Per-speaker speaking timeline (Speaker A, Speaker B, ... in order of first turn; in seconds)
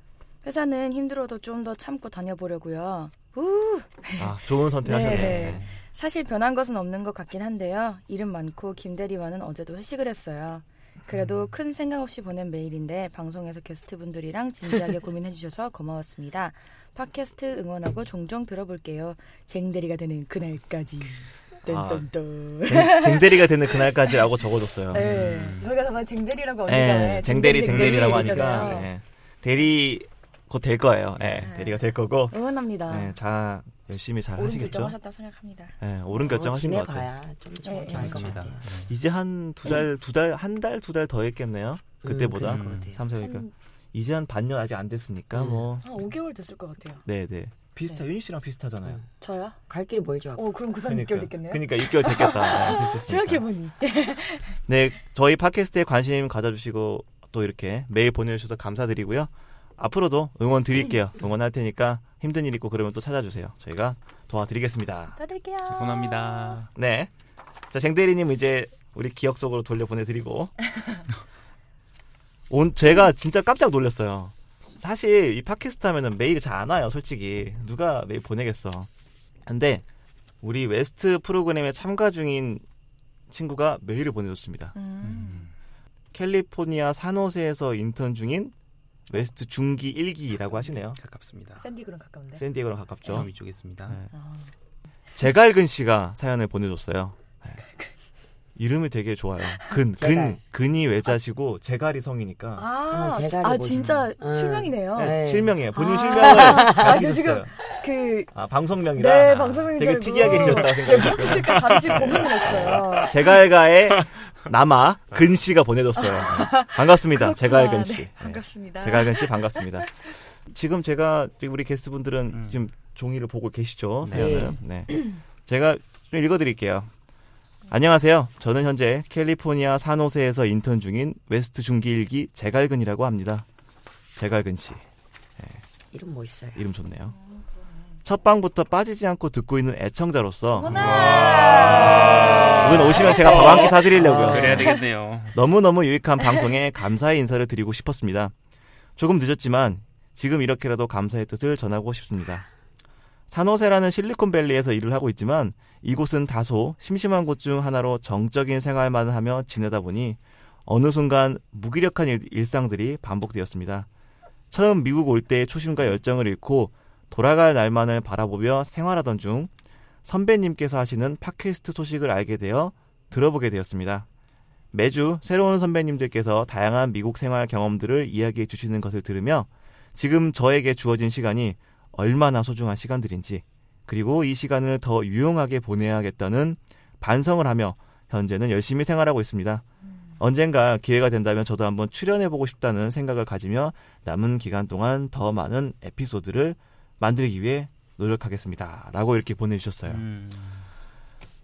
Speaker A: 0.4-24.2, 24.9-28.9, 31.4-33.1, 34.4-35.7, 37.6-38.4, 43.2-43.5, 45.8-47.0, 49.2-49.6, 50.3-54.5, 65.2-66.6, 84.7-85.5, 91.6-92.4, 94.1-94.5, 97.5-97.9, 102.5-105.2, 105.7-108.3, 109.0-113.3, 116.0-119.8, 137.1-137.7, 140.6-143.7, 144.5-144.8
Speaker B: 4.2-5.7, 21.6-22.1, 22.6-25.2, 26.7-32.4, 32.9-35.0, 35.8-37.1, 38.9-46.0, 47.0-49.0, 50.8-53.5, 54.7-65.2, 66.7-67.1, 67.7-70.6, 72.5-78.9, 79.4-79.8, 80.4-82.6, 83.3-84.7, 86.1-88.5, 89.1-91.0, 92.4-93.3, 95.2-97.6, 98.5-102.7, 105.0-107.5, 108.3-126.9, 127.7-133.4, 134.2-134.8, 135.4-135.6, 136.6-137.2, 138.0-144.8, 145.3-148.3, 149.0-152.5, 153.3-163.9, 164.5-169.5, 170.0-174.1, 174.7-189.6, 190.2-200.0
Speaker C: 24.9-25.7, 31.2-31.5, 37.9-38.9, 42.4-42.9, 65.7-66.7, 85.0-85.5, 91.0-91.6, 93.0-94.0, 109.3-109.6, 110.2-110.7, 122.3-122.6, 124.0-124.5, 140.7-145.3, 199.8-200.7
Speaker D: 28.0-28.8, 36.1-38.7, 42.0-43.0, 45.3-45.7, 49.7-50.5, 100.0-100.4, 102.9-105.6, 106.1-107.0, 124.1-124.6, 135.9-136.7, 142.2-142.6, 143.9-144.8